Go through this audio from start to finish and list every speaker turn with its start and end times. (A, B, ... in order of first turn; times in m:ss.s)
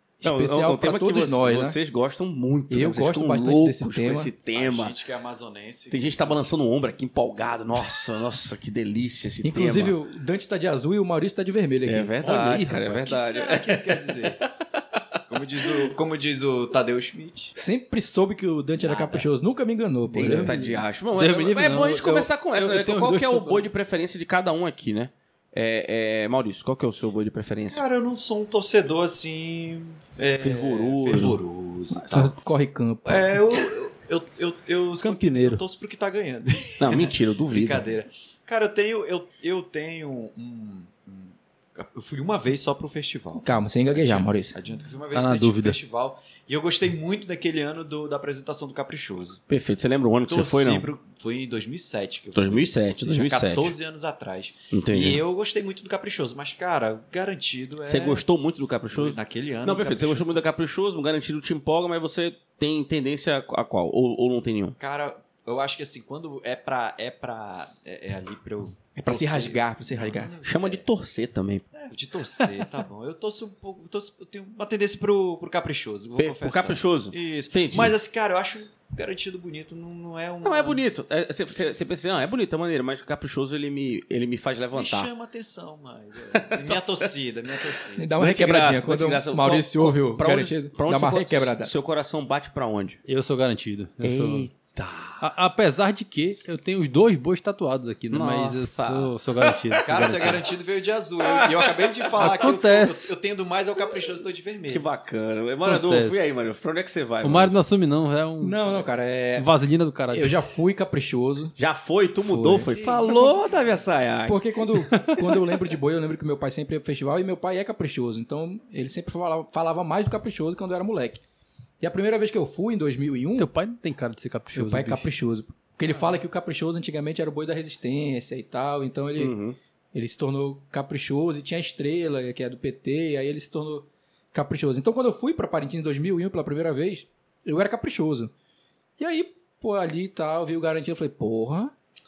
0:00.2-0:01.8 A
0:00.2-0:05.0 B
0:02.7-0:04.3 A
0:04.5-0:06.4 C
0:05.9-0:10.0 B
0:09.4-0:12.1 A
0:11.9-0:15.0 B
0:12.2-0:12.8 D
0:12.8-0:14.4 C
0:15.3-0:17.5 C
0:15.6-0:15.9 B
0:17.6-0:20.5 A
0:18.8-0:19.3 C
0:20.2-0:27.8 B
0:20.3-0:23.7 D
0:27.7-0:32.3 C
0:30.3-0:31.4 B
0:32.0-0:33.4 A
0:33.0-0:49.4 C
0:35.0-0:35.6 D
0:36.8-0:37.8 B
0:43.4-0:44.6 A
0:45.1-0:45.8 D
0:49.5-0:50.9 B
0:50.3-0:58.2 C
0:52.3-0:53.7 B
0:54.7-0:55.2 B
0:57.8-1:04.8 B
0:58.9-1:00.4 C
1:04.8-1:10.8 C
1:09.0-1:10.3 A
1:10.4-1:11.6 B
1:11.8-1:20.8 C
1:16.2-1:18.0 B
1:20.4-1:25.1 B
1:24.7-1:28.1 C
1:26.3-1:27.1 B
1:27.7-1:33.0 B
1:28.0-1:31.7 A
1:33.1-1:34.5 D
1:34.0-1:35.3 B
1:35.2-1:40.4 D
1:38.1-1:40.4 B
1:39.8-1:44.8 C
1:41.2-1:42.4 B
1:42.2-1:43.1 D
1:44.7-1:47.6 B
1:45.6-1:46.3 D
1:47.2-1:48.8 D
1:48.4-1:49.5 A
1:49.4-1:50.5 D
1:50.1-1:51.5 A
1:51.6-1:54.4 B
1:52.2-1:53.3 A
1:52.7-1:53.8 C
1:54.2-2:01.2 A
1:54.9-1:55.4 D
2:01.8-2:03.5 A
2:03.4-2:05.1 D
2:04.6-2:09.3 A
2:09.2-2:09.6 B
2:09.9-2:18.3 A
2:19.0-2:21.7 A